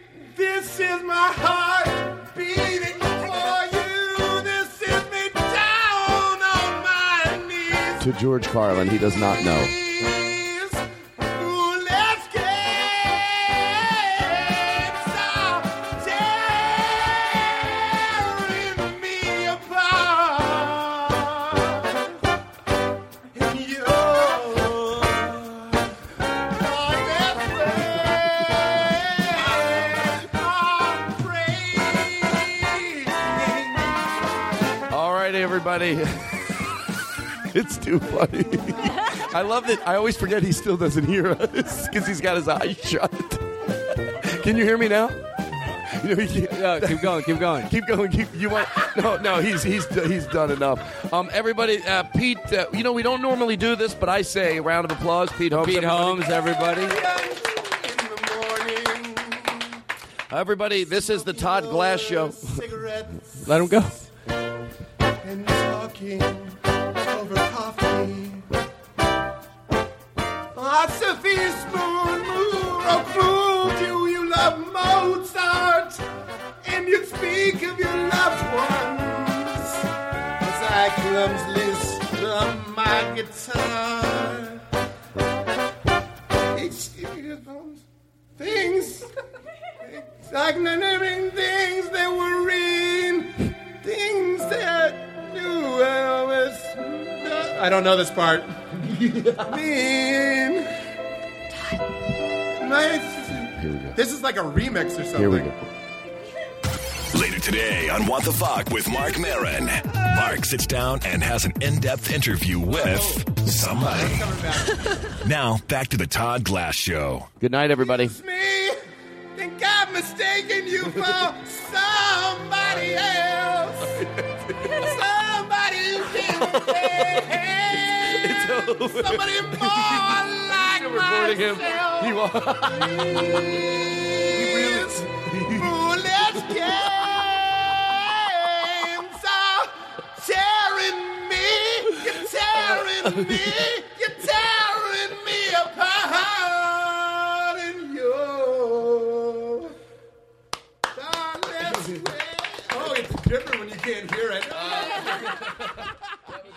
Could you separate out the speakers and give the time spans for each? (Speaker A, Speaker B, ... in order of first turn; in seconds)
Speaker A: 0.2-8.0, 9.4-22.1, 23.3-25.9, 26.5-34.0, 56.8-59.6, 60.8-63.9, 65.2-68.4, 70.5-76.0, 76.6-79.8, 80.4-84.6, 86.5-87.8, 88.4-89.1, 89.8-93.3, 93.8-98.5, 99.4-100.7, 102.5-105.5, 112.7-113.1, 113.7-114.7, 117.9-118.7, 119.3-124.0, 124.7-149.7, 150.9-155.4
Speaker B: 8.0-9.7, 34.9-36.2, 37.5-43.5, 44.1-56.5, 60.3-62.5, 103.5-104.0, 105.2-105.6, 117.4-118.1, 126.6-127.3, 128.1-133.4, 134.3-135.7
Speaker C: 46.5-47.7, 55.5-57.0, 63.4-64.0
Speaker D: 107.1-114.3, 115.2-117.3